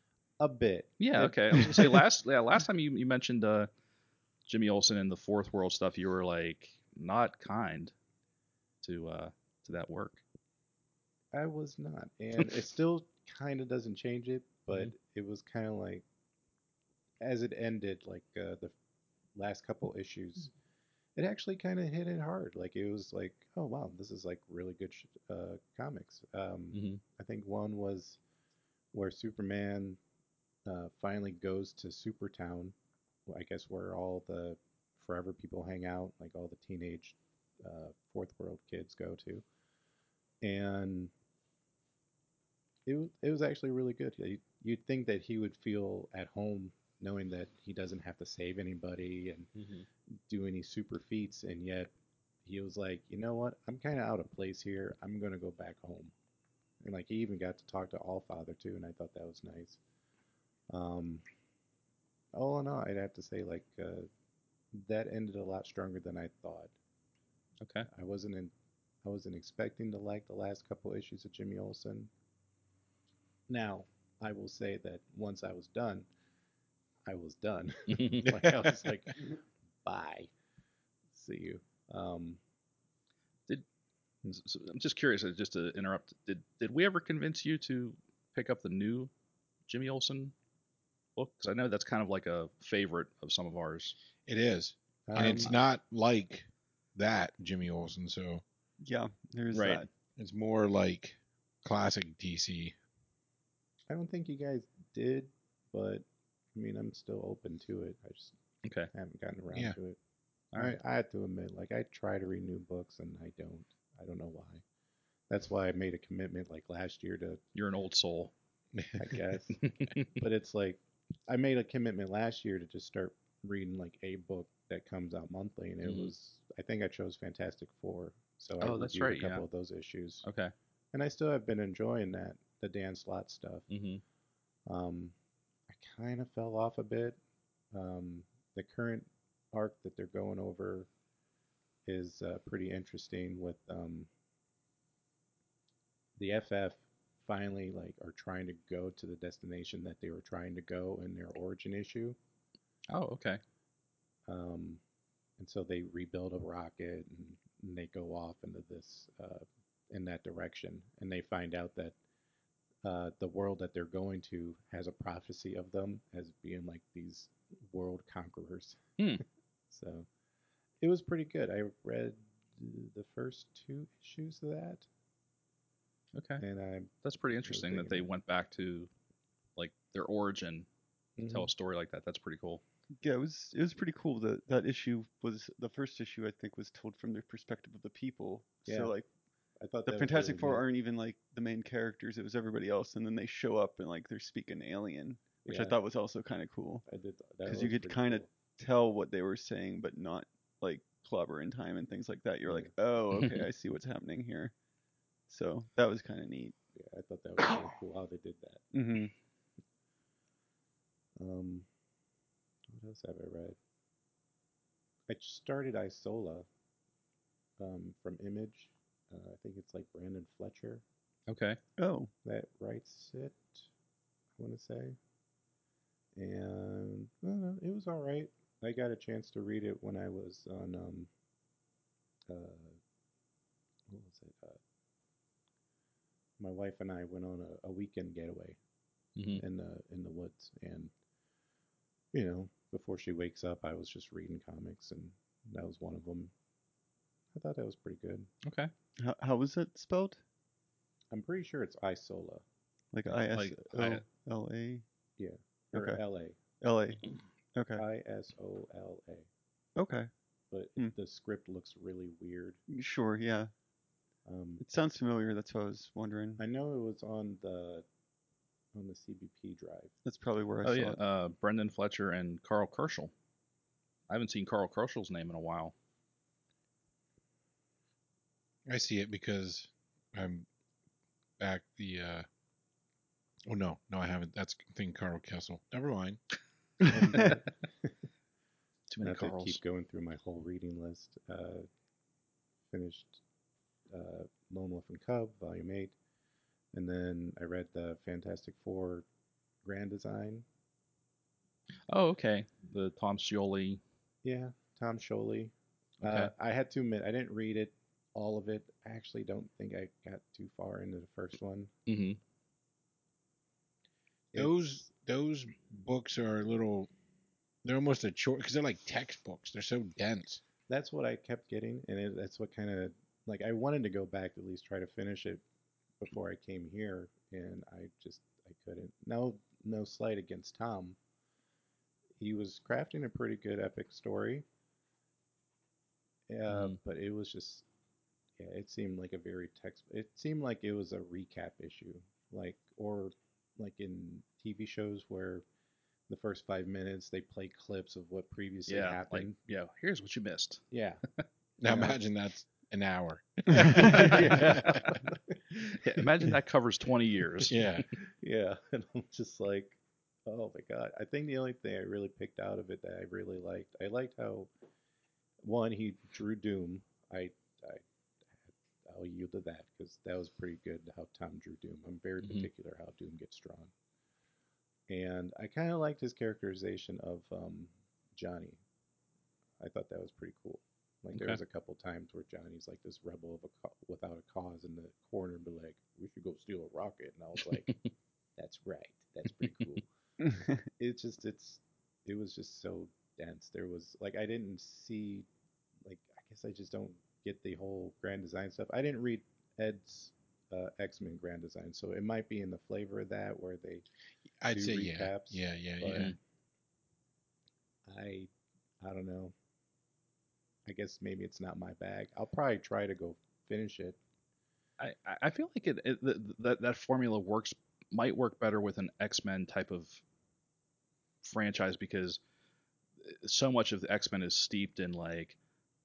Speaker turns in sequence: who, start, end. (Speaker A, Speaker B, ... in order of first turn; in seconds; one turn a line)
Speaker A: 0.4-2.1
Speaker B: 1.0-3.7
Speaker B: 4.5-7.9
Speaker B: 8.8-10.2
Speaker A: 11.3-16.0
Speaker A: 17.2-18.8
Speaker A: 19.4-20.5
Speaker A: 21.2-28.2
Speaker B: 26.7-27.0
Speaker A: 28.9-30.0
Speaker A: 30.6-32.8
Speaker A: 33.3-39.4
Speaker A: 40.4-41.1
Speaker A: 42.9-49.5
Speaker B: 49.5-49.9
Speaker A: 50.3-51.9
Speaker A: 52.4-56.1
Speaker A: 56.8-59.8
Speaker A: 60.7-61.2
Speaker A: 62.3-64.1
Speaker A: 64.7-66.7
Speaker B: 67.6-67.9
Speaker A: 67.9-68.5
Speaker A: 69.0-72.1
Speaker A: 73.5-76.1
Speaker A: 77.0-80.3
Speaker B: 77.9-78.3
Speaker C: 78.2-78.5
Speaker A: 81.1-82.4
Speaker B: 84.3-89.1
Speaker B: 89.7-90.3
Speaker B: 91.2-94.0
Speaker C: 94.3-98.4
Speaker A: 95.1-95.5
Speaker B: 95.2-95.5
Speaker D: 98.8-99.9
Speaker B: 99.5-99.8
Speaker C: 100.2-102.8
Speaker A: 103.9-108.3
Speaker B: 108.6-108.9
Speaker A: 108.9-110.0
Speaker A: 110.5-114.6
Speaker A: 115.3-117.4
Speaker B: 117.5-118.3
Speaker C: 118.8-119.0
Speaker A: 119.0-130.2
Speaker B: 119.6-120.2
Speaker B: 125.8-126.1
Speaker B: 128.6-129.4
Speaker B: 130.2-130.5
Speaker A: 130.9-133.7
Speaker B: 133.7-134.0
Speaker A: 134.7-135.2
Speaker A: 135.7-137.2
Speaker A: 137.7-140.9
Speaker A: 141.9-144.1
Speaker A: 146.2-152.2
Speaker B: 152.9-153.4
Speaker A: 154.3-154.8
Speaker A: 155.4-162.0
Speaker A: 162.8-170.1
Speaker A: 170.8-174.9
Speaker B: 176.2-176.4
Speaker A: 176.4-176.9
Speaker B: 177.0-178.9
Speaker A: 177.4-178.1
Speaker B: 179.6-180.7
Speaker A: 181.2-181.5
Speaker B: 181.2-182.6
Speaker D: 183.0-189.1
Speaker A: 188.7-188.9
Speaker A: 189.6-190.7
Speaker D: 189.9-196.8
Speaker A: 195.4-195.8
Speaker A: 196.9-198.3
Speaker D: 197.4-204.5
Speaker A: 202.5-202.7
Speaker D: 205.3-206.6
Speaker A: 206.8-208.7
Speaker D: 208.7-209.1
Speaker A: 211.2-211.7
Speaker A: 212.7-213.6
Speaker A: 215.1-216.5
Speaker A: 217.6-220.8
Speaker B: 221.3-221.6
Speaker D: 221.8-222.1
Speaker A: 222.2-223.7
Speaker A: 224.4-225.0
Speaker A: 226.2-231.1
Speaker A: 232.3-232.8
Speaker A: 233.9-234.6
Speaker A: 236.4-238.6
Speaker B: 239.2-239.4
Speaker A: 239.4-240.9
Speaker A: 242.1-246.3
Speaker A: 247.3-248.3
Speaker B: 248.4-248.7
Speaker D: 249.0-250.2
Speaker A: 251.1-252.4
Speaker D: 252.9-254.8
Speaker B: 253.1-254.0
Speaker A: 255.2-256.4
Speaker D: 255.7-256.0
Speaker D: 256.6-257.0
Speaker D: 257.6-257.8
Speaker A: 257.8-259.3
Speaker D: 259.8-260.1
Speaker A: 260.5-262.6
Speaker D: 262.7-263.5
Speaker A: 264.2-264.6
Speaker D: 264.6-266.4
Speaker A: 266.4-267.9
Speaker A: 268.7-269.9
Speaker D: 270.0-271.0
Speaker B: 270.6-273.1
Speaker B: 274.1-275.7
Speaker C: 278.7-280.5
Speaker C: 281.4-282.3
Speaker C: 283.5-286.2
Speaker A: 286.9-287.9
Speaker B: 288.9-289.6
Speaker A: 289.0-291.7
Speaker A: 292.7-293.2
Speaker A: 293.9-295.9
Speaker A: 296.7-299.1
Speaker A: 299.6-300.5
Speaker B: 301.9-303.8
Speaker A: 304.2-311.7
Speaker B: 306.0-306.3
Speaker B: 311.9-312.2
Speaker A: 314.3-314.9
Speaker C: 314.4-316.9
Speaker C: 317.6-320.4
Speaker A: 320.7-325.4
Speaker A: 326.0-331.0
Speaker A: 332.2-334.4
Speaker A: 336.3-337.6
Speaker B: 336.5-336.8
Speaker A: 338.4-345.4
Speaker A: 346.1-349.4
Speaker B: 348.7-350.6
Speaker A: 350.7-351.0
Speaker C: 351.6-354.9
Speaker A: 351.6-352.0
Speaker B: 353.8-355.0
Speaker A: 353.8-355.2
Speaker B: 355.7-357.8
Speaker C: 357.5-357.9
Speaker A: 357.9-364.5
Speaker A: 365.4-367.9
Speaker A: 368.4-373.7
Speaker B: 372.2-372.5
Speaker A: 374.9-378.6
Speaker A: 379.6-387.8
Speaker B: 381.1-381.4
Speaker A: 388.4-389.9
Speaker D: 390.2-390.6
Speaker A: 390.7-395.3
Speaker A: 395.8-403.9
Speaker C: 404.4-406.1
Speaker A: 404.5-406.1
Speaker B: 405.9-406.2
Speaker A: 407.9-409.3
Speaker A: 410.7-414.0
Speaker B: 414.8-420.0
Speaker B: 421.2-422.2
Speaker B: 423.0-425.4